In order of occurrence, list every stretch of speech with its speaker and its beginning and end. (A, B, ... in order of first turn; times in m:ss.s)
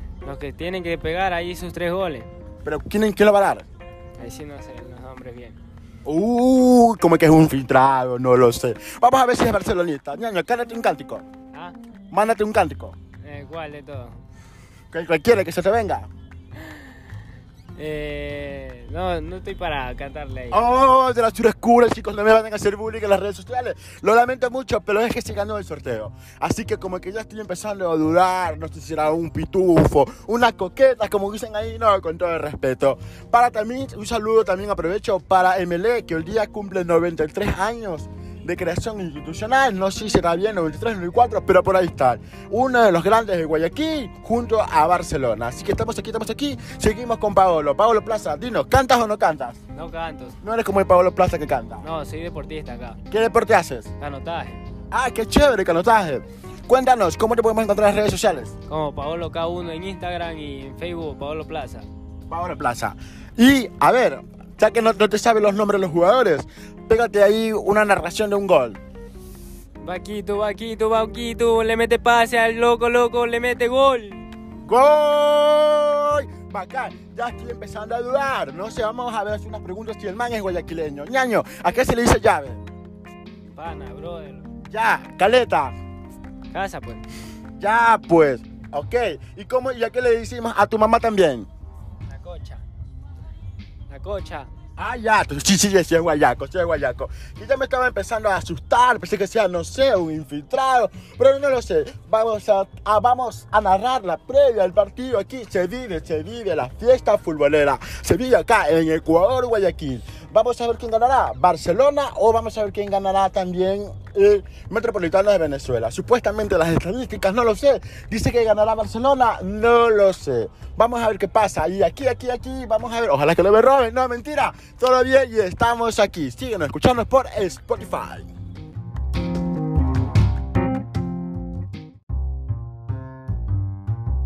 0:00.2-0:02.3 A
0:02.6-0:03.6 B
0:04.2-0:05.6 A
0:06.0-0:11.2 B
0:12.1-0:13.0 B
0:13.2-0:14.2 A
0:14.9-0:16.1 B
0:17.8-0:20.6 A
0:20.5-0:49.6 B
0:49.7-0:50.4 A
0:50.4-0:51.8 B
0:51.8-0:53.0 A
0:53.1-0:53.9 B
0:54.0-0:54.6 A
0:54.9-0:58.5 B
0:58.7-1:01.8 A
1:02.3-1:08.8 B
1:09.8-1:14.2 A
1:14.6-1:22.6 B
1:23.5-1:24.5 A
1:24.7-1:25.7 B
1:26.5-1:27.0 A
1:27.6-1:31.5 B
1:32.1-1:32.6 A
1:33.9-1:34.5 A
1:34.8-2:08.3 B